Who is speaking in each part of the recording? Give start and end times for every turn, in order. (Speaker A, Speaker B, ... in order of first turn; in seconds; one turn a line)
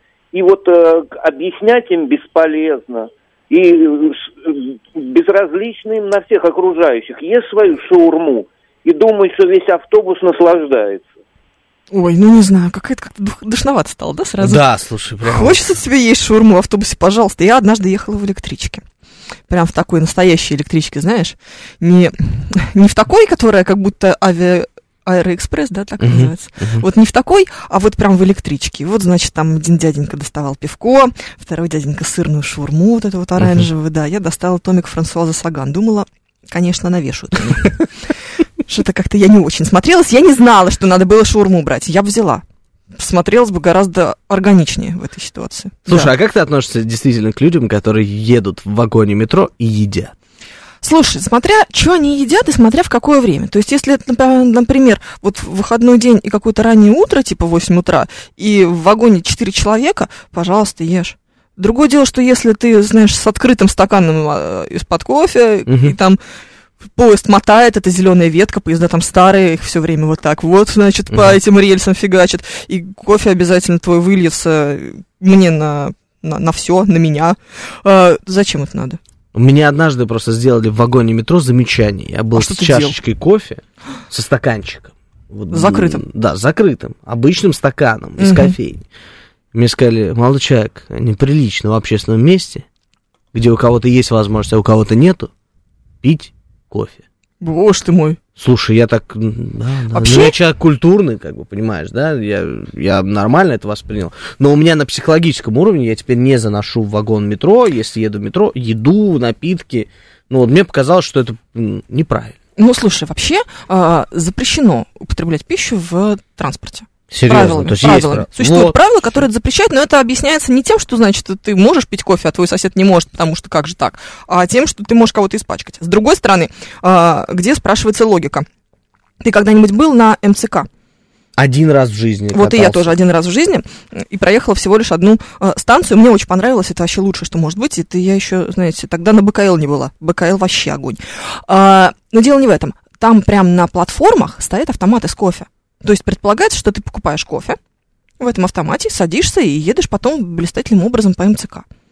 Speaker A: 0.3-11.1
Speaker B: 11.9-14.6
Speaker C: 14.4-15.6
Speaker B: 15.2-18.8
Speaker B: 19.5-37.9
Speaker C: 26.0-26.8
Speaker C: 33.4-33.7
Speaker B: 38.6-42.4
Speaker B: 42.9-46.1
Speaker C: 45.9-50.1
Speaker B: 50.8-66.2
Speaker C: 65.7-65.9
Speaker B: 66.9-79.0
Speaker C: 71.1-71.4
Speaker C: 79.3-88.8
Speaker B: 82.3-83.0
Speaker B: 85.5-86.0
Speaker B: 88.2-88.5
Speaker C: 89.5-92.6
Speaker C: 93.3-95.3
Speaker C: 96.0-97.0
Speaker B: 97.4-98.2
Speaker C: 98.4-112.3
Speaker B: 99.9-100.3
Speaker B: 112.6-128.4
Speaker C: 117.1-119.2
Speaker B: 129.2-130.7
Speaker C: 131.4-132.9
Speaker B: 132.3-147.6
Speaker B: 148.2-151.6